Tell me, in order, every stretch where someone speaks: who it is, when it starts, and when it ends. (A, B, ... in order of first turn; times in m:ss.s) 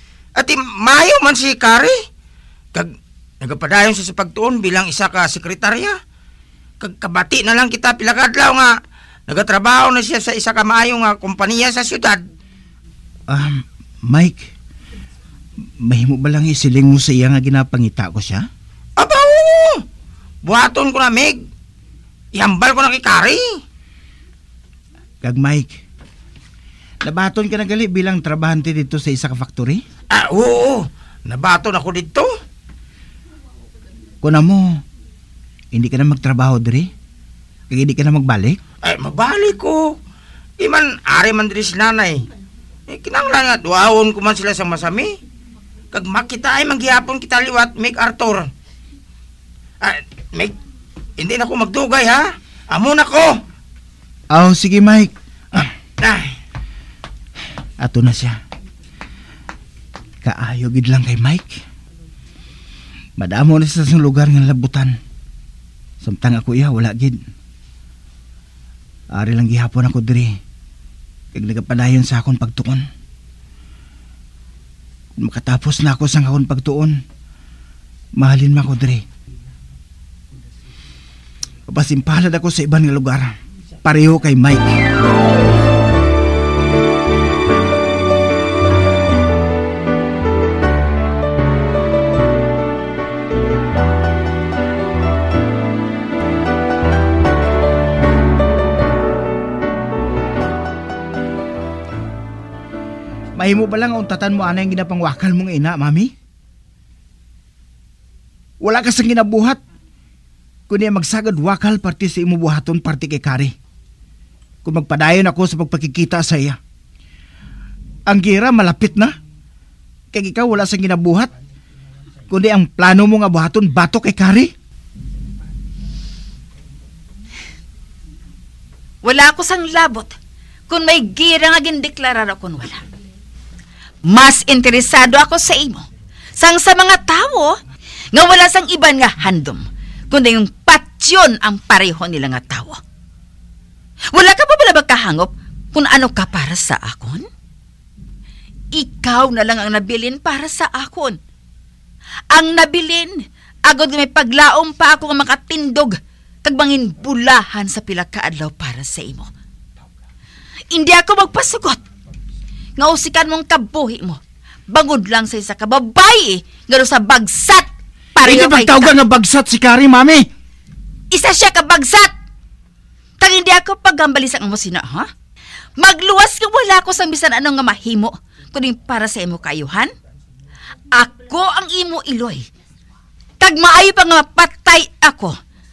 0:00.4-0:01.9 A
0:03.4-0:05.9 A
0:06.8-0:08.7 A
0:09.3-0:12.2 A
0:13.3-0:14.4 B
0:15.8-0:18.5 B
0:19.0-0:19.8 A
0:20.4-0:21.4 A
0:22.3-0:23.4 A
0:25.2-0:25.8 B
0:27.0-0:29.8 B
0:30.1-0:32.2 A
0:34.2-0:34.8 B
0:35.7-0:36.9 B
0:37.7-0:38.6 B
0:38.8-0:39.9 A
0:40.6-0:42.2 A
0:42.9-0:45.1 A
0:45.9-0:48.5 A
0:49.8-0:50.5 A
0:51.2-0:53.3 A
0:54.3-0:55.1 B
0:57.8-0:58.4 B
1:00.2-1:01.6 B
1:03.2-1:04.9 B
1:06.0-1:07.2 B
1:09.1-1:10.3 B
1:11.3-1:12.8 B
1:15.2-1:17.0 B
1:18.2-1:19.0 B
1:21.7-1:24.8 B
1:43.4-1:46.1 B
1:48.6-1:49.6 B
1:50.7-1:53.5 B
1:54.6-1:56.6 B
1:58.1-1:59.1 B
2:00.1-2:01.3 B
2:02.3-2:04.5 B
2:09.0-2:10.2 C
2:10.7-2:12.8 C
2:14.1-2:15.8 C
2:16.4-2:17.6 C
2:18.1-2:22.8 C
2:24.1-2:27.2 C
2:28.7-2:31.2 C
2:32.3-2:33.1 C
2:33.6-2:39.3 C
2:40.7-2:41.8 C
2:42.8-2:48.9 C
2:48.2-2:50.2 B
2:51.1-2:52.1 C
2:53.2-2:55.1 C
2:55.8-2:59.9 C
3:00.9-3:02.5 C
3:03.4-3:05.4 C